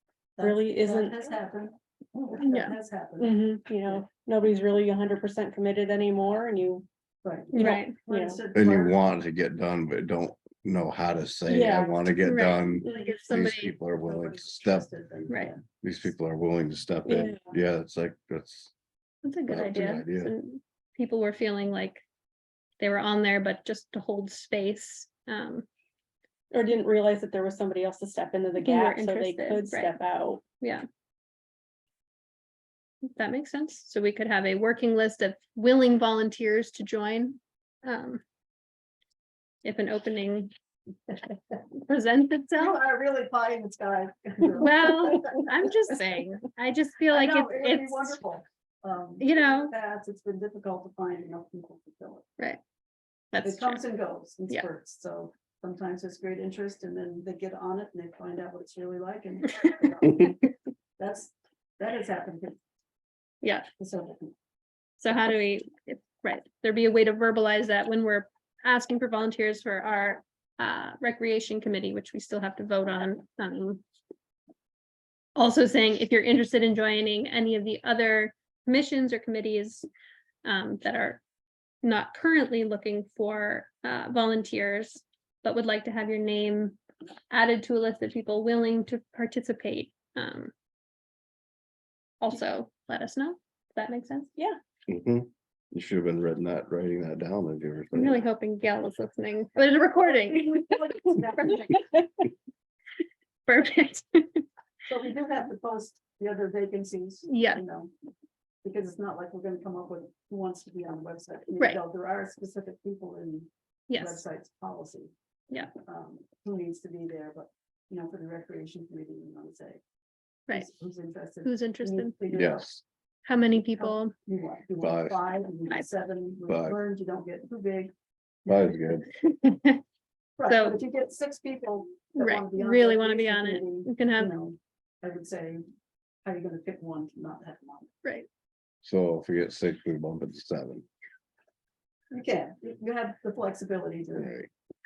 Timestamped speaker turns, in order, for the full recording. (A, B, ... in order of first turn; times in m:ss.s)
0:00.4-0:03.4 A
0:00.4-0:01.3 B
0:02.4-0:02.8 C
0:03.2-0:06.9 B
0:07.2-0:09.0 A
0:07.5-0:08.0 C
0:07.5-0:08.4 B
0:08.5-0:14.9 D
0:11.5-0:12.0 B
0:12.2-0:13.7 C
0:12.8-0:16.1 A
0:15.8-0:18.7 D
0:17.1-0:17.4 B
0:19.2-0:22.0 C
0:19.5-0:20.3 D
0:22.8-0:25.7 C
0:26.5-0:30.4 B
0:28.6-0:30.0 C
0:33.0-0:38.2 C
0:39.6-0:40.5 C
0:41.1-0:42.8 C
0:42.6-0:45.2 A
0:44.6-0:48.2 C
0:47.1-0:52.3 A
0:49.2-0:49.7 C
0:53.3-0:53.8 C
0:53.4-1:00.5 A
1:01.0-1:02.6 A
1:03.4-1:03.7 C
1:03.8-1:04.3 A
1:05.0-1:13.8 C
1:15.4-1:19.9 C
1:20.4-1:21.2 C
1:21.8-1:26.8 C
1:27.3-1:30.5 C
1:32.2-1:34.3 C
1:34.9-1:38.2 D
1:37.9-1:40.6 C
1:40.0-1:41.8 A
1:41.4-1:41.7 C
1:43.5-1:44.4 C
1:44.8-1:47.9 A
1:47.3-1:47.6 C
1:48.6-1:55.1 A
1:53.9-1:54.2 C
1:55.8-1:59.8 A
2:00.5-2:02.7 A
2:01.4-2:02.2 C
2:02.3-2:02.8 D
2:03.3-2:04.1 C
2:03.7-2:07.9 A
2:04.8-2:05.2 D
2:06.5-2:06.8 D
2:08.4-2:09.0 A
2:08.5-2:09.1 D
2:09.1-2:09.8 C
2:10.4-2:15.6 A
2:10.5-2:10.8 C
2:12.2-2:14.3 C
2:16.2-2:17.9 A
2:18.8-2:20.9 D
2:22.1-2:24.3 A
2:24.2-2:24.5 D